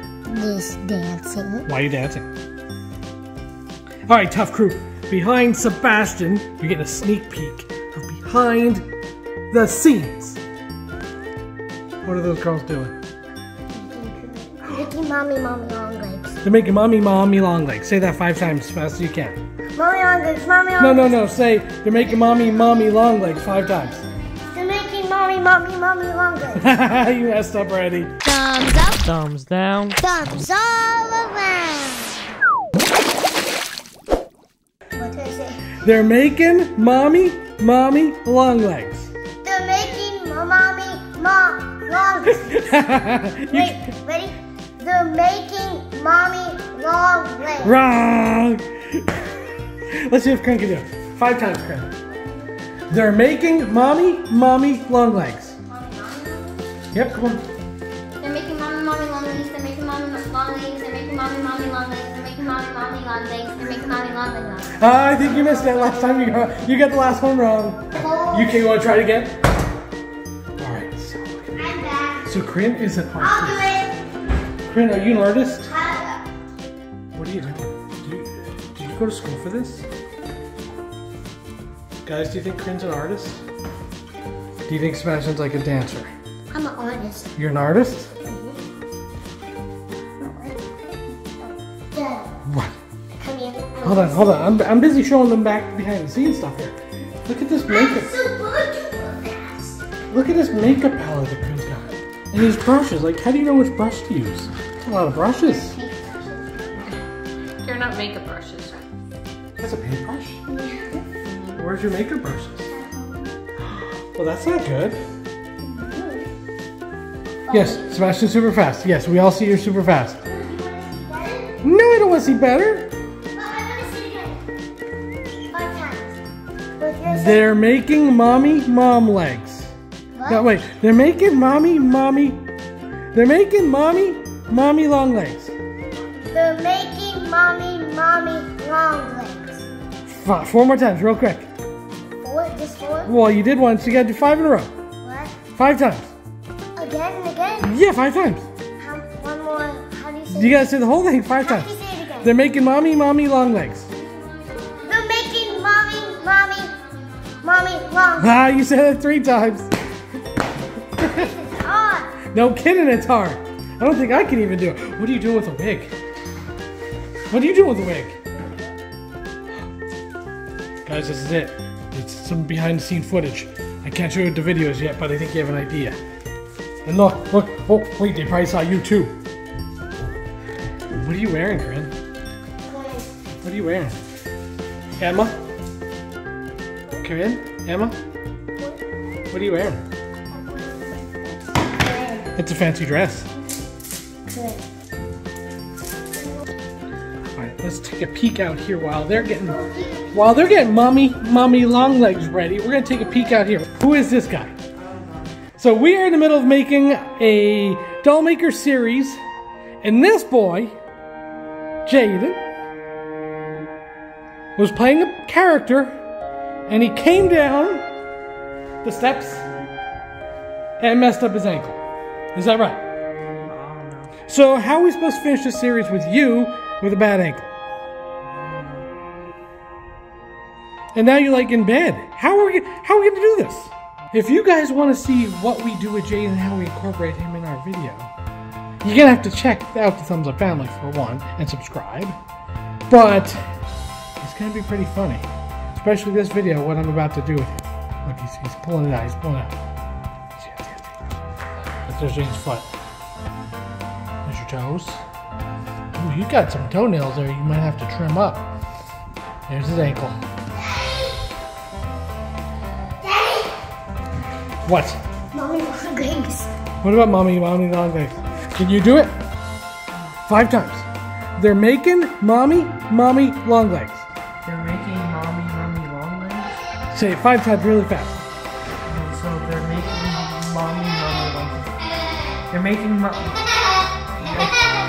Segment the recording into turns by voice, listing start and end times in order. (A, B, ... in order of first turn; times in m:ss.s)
0:00.3-0:01.7 A
0:01.7-0:02.3 B
0:04.1-0:08.8 B
0:09.5-0:10.4 B
0:12.0-0:12.9 B
0:13.7-0:16.4 A
0:16.4-0:19.4 B
0:19.8-0:21.2 A
0:20.8-0:24.0 B
0:24.5-0:26.7 A
0:26.5-0:28.1 B
0:28.2-0:29.0 A
0:28.9-0:30.0 C
0:30.0-0:32.2 A
0:34.9-0:35.8 A
0:35.8-0:39.1 B
0:39.4-0:42.7 A
0:42.4-0:43.8 B
0:43.5-0:47.8 A
0:47.6-0:51.9 B
0:52.9-0:55.6 B
0:55.7-0:56.6 D
0:56.9-0:57.4 B
0:58.2-1:04.6 D
1:03.6-1:04.4 A
1:04.7-1:09.4 B
1:07.9-1:08.6 A
1:10.6-1:11.6 B
1:11.6-1:12.3 A
1:12.2-1:13.7 B
1:13.2-1:13.9 A
1:14.6-1:15.7 B
1:15.7-1:16.3 A
1:17.1-1:19.8 B
1:22.0-1:23.4 B
1:24.7-1:26.1 B
1:26.5-1:27.3 A
1:27.4-1:28.1 B
1:28.2-1:28.6 A
1:30.2-1:32.3 A
1:32.4-1:32.8 B
1:33.2-1:34.6 A
1:33.8-1:38.1 B
1:37.7-1:39.8 A
1:40.1-1:45.8 B
1:45.4-1:46.8 A
1:47.6-1:48.8 D
1:49.6-1:50.4 B
1:50.5-1:51.0 A
1:51.2-1:51.6 D
1:51.5-1:52.7 B
1:52.7-1:53.3 A
1:53.6-1:55.0 B
1:55.6-1:56.2 A
1:57.5-1:57.8 A
1:57.5-2:00.2 B
2:00.2-2:01.6 A
2:01.6-2:02.9 B
2:03.3-2:04.4 A
2:05.5-2:06.2 A
2:06.8-2:07.5 A
2:07.0-2:09.7 B
2:10.1-2:10.6 A
2:10.3-2:12.4 B
2:13.1-2:15.5 B
2:16.3-2:19.6 A
2:20.1-2:21.5 B
2:22.2-2:23.2 A
2:23.0-2:24.7 B
2:25.0-2:25.4 A
2:25.5-2:26.1 B
2:26.7-2:27.8 A
2:27.6-2:28.5 B
2:28.8-2:30.7 A
2:30.3-2:31.7 B
2:31.4-2:32.3 A
2:32.2-2:33.9 B
2:34.8-2:36.8 A
2:37.4-2:38.4 A
2:38.2-2:39.7 B
2:41.0-2:42.2 A
2:42.3-2:45.9 B
2:47.3-2:48.2 B
2:50.8-2:56.0 B
2:56.8-2:59.2 B
3:00.9-3:01.9 B
3:02.6-3:03.1 A
3:03.4-3:04.0 B
3:05.0-3:05.4 B
3:07.0-3:08.0 B
3:09.3-3:09.8 B
3:10.3-3:12.3 A
3:12.4-3:13.3 B
3:14.3-3:14.6 A
3:17.3-3:19.6 B
3:19.3-3:20.3 A
3:20.1-3:24.5 B
3:24.8-3:25.3 C
3:25.6-3:29.2 B
3:29.8-3:30.8 B
3:31.8-3:32.4 B
3:34.6-3:36.0 B
3:36.7-3:37.8 B
3:38.8-3:39.4 B
3:40.8-3:41.8 B
3:42.3-3:42.8 B
3:43.4-3:44.2 C
3:44.3-3:47.5 B
3:50.9-3:58.1 B
3:58.8-4:02.2 B
4:02.9-4:03.4 B
4:04.2-4:09.6 B
4:10.4-4:10.9 B
4:11.8-4:12.7 B
4:14.2-4:15.0 B
4:15.9-4:18.5 B
4:19.5-4:20.2 B
4:23.0-4:23.5 A
4:24.6-4:25.0 B
4:25.3-4:26.5 A
4:26.8-4:29.1 B
4:30.2-4:34.0 B
4:34.4-4:36.5 C
4:36.9-4:38.2 B
4:38.8-4:41.7 C
4:42.5-4:44.6 C